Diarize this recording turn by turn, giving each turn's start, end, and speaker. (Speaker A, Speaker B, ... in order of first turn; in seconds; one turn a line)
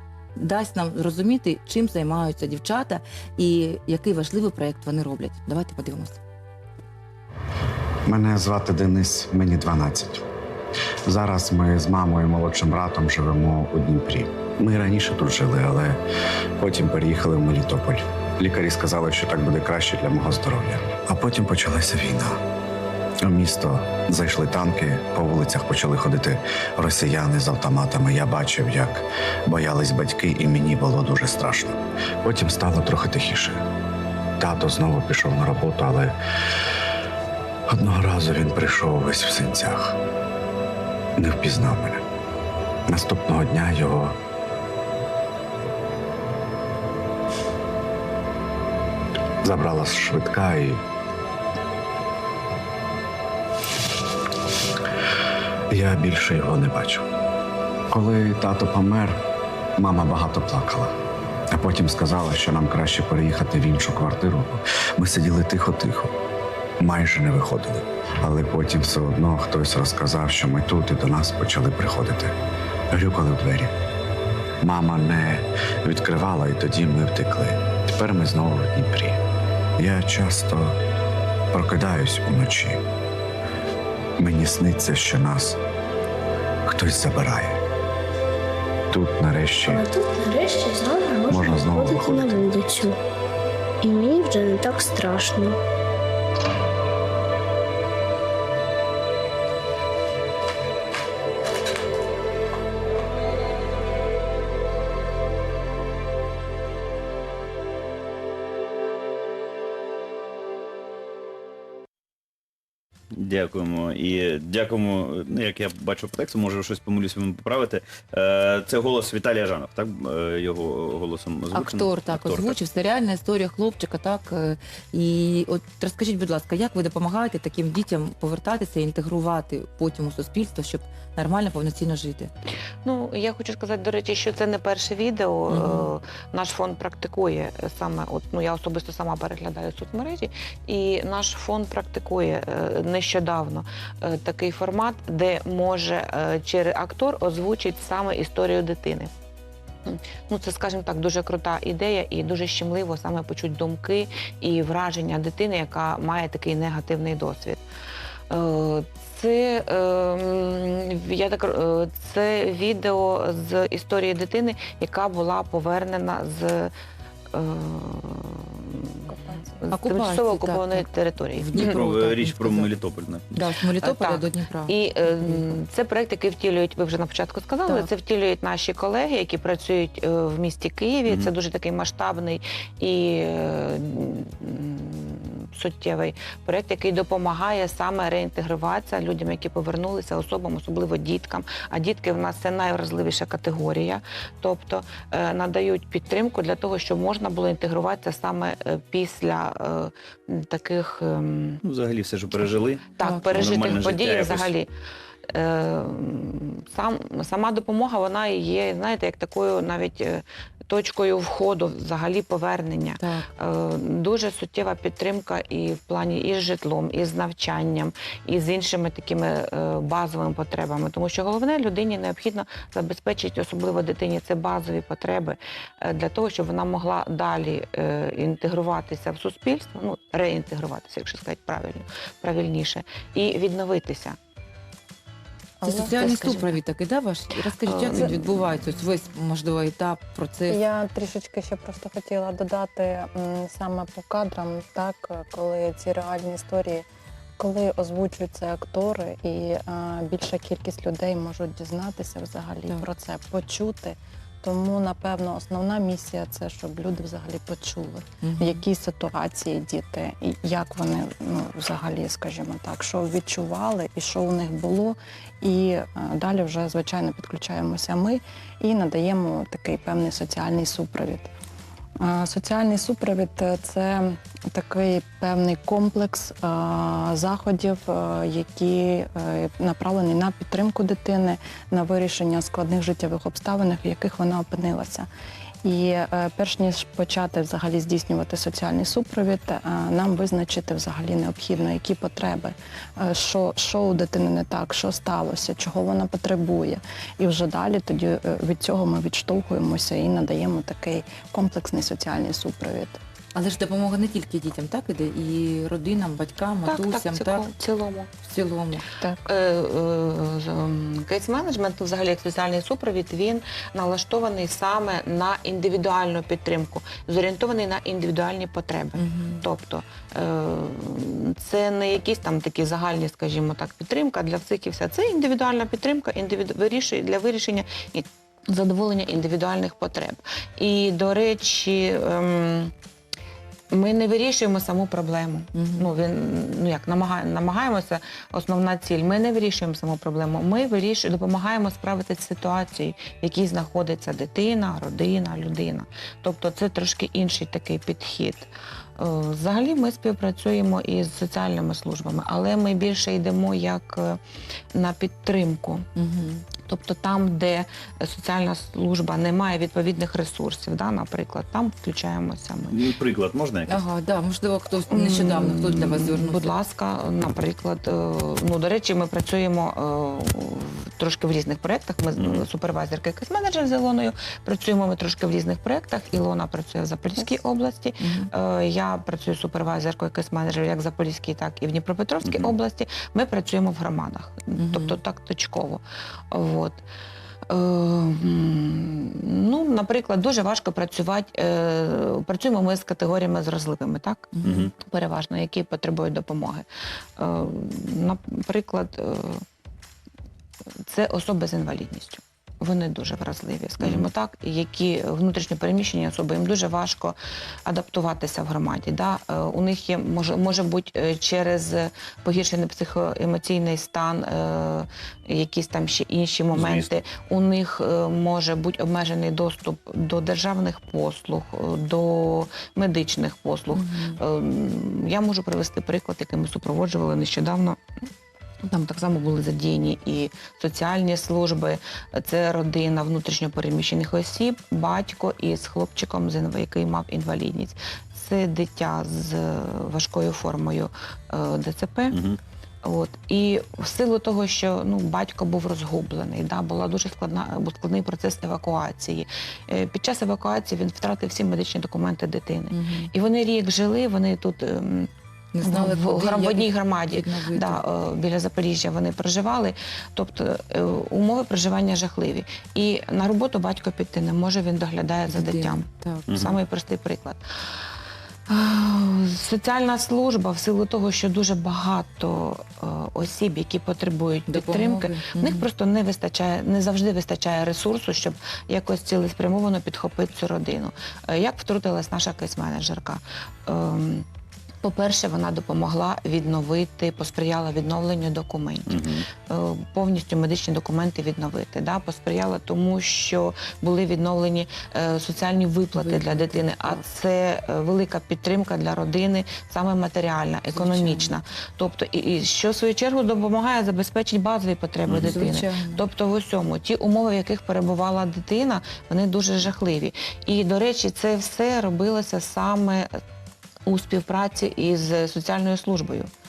Speaker A: 0.4-6.2
Speaker B: 8.1-10.2
Speaker B: 11.1-16.0
Speaker B: 16.6-22.4
Speaker B: 23.2-33.6
Speaker B: 34.4-36.1
Speaker B: 37.7-40.0
Speaker B: 41.2-42.0
Speaker B: 42.9-44.2
Speaker B: 49.4-50.8
Speaker B: 55.7-57.0
Speaker B: 57.9-59.2
Speaker B: 59.8-60.9
Speaker B: 61.5-66.1
Speaker B: 66.8-72.3
Speaker B: 72.9-73.7
Speaker B: 74.6-79.2
Speaker B: 79.8-80.8
Speaker B: 81.5-82.8
Speaker B: 84.2-85.6
Speaker B: 86.6-87.6
Speaker B: 88.9-89.9
Speaker C: 89.7-93.0
Speaker B: 91.3-92.5
Speaker C: 93.8-95.6
Speaker D: 113.1-122.5
Speaker A: 121.5-132.3
Speaker E: 132.8-149.1
Speaker A: 135.5-135.9
Speaker E: 149.8-157.6
Speaker E: 158.3-166.7
Speaker E: 167.3-171.8
Speaker F: 169.1-169.7
Speaker A: 169.7-172.7
Speaker D: 171.5-173.4
Speaker A: 173.3-175.5
Speaker E: 173.8-201.6
Speaker D: 201.6-204.5
Speaker E: 202.9-204.7
Speaker A: 203.0-203.5
Speaker E: 205.3-234.2
Speaker A: 213.0-213.3
Speaker F: 235.6-236.4
Speaker A: 235.6-240.6
Speaker E: 236.1-236.6
Speaker E: 237.6-238.3
Speaker F: 240.5-246.8
Speaker F: 247.4-271.3
Speaker A: 258.2-258.6
Speaker F: 272.0-285.1
Speaker F: 285.6-303.0
Speaker A: 303.3-307.4
Speaker E: 306.6-308.1
Speaker A: 308.2-308.8
Speaker E: 309.2-332.7
Speaker A: 319.0-319.4
Speaker E: 333.7-354.2
Speaker A: 335.5-335.9
Speaker E: 354.7-355.8
Speaker A: 356.0-356.4
Speaker E: 356.7-362.8
Speaker D: 362.7-363.8
Speaker A: 363.7-366.5
Speaker E: 364.9-386.8
Speaker D: 372.2-372.4
Speaker A: 378.0-378.3
Speaker A: 384.6-385.0
Speaker E: 387.5-396.6
Speaker A: 394.4-394.7
Speaker D: 394.4-394.7
Speaker E: 397.2-399.4
Speaker E: 400.8-427.8
Speaker D: 403.8-404.1
Speaker D: 416.5-416.9
Speaker A: 423.7-424.2
Speaker E: 428.6-442.2
Speaker D: 442.1-442.4
Speaker E: 442.8-455.1
Speaker A: 452.7-453.1
Speaker A: 455.5-457.8
Speaker E: 455.6-467.4
Speaker A: 465.3-466.5
Speaker D: 466.3-466.6
Speaker E: 468.5-484.2
Speaker A: 474.5-475.7
Speaker E: 484.8-513.1
Speaker D: 488.9-489.2
Speaker A: 495.9-497.0
Speaker A: 500.7-501.3
Speaker D: 505.1-505.4
Speaker A: 505.1-506.0
Speaker E: 513.9-516.3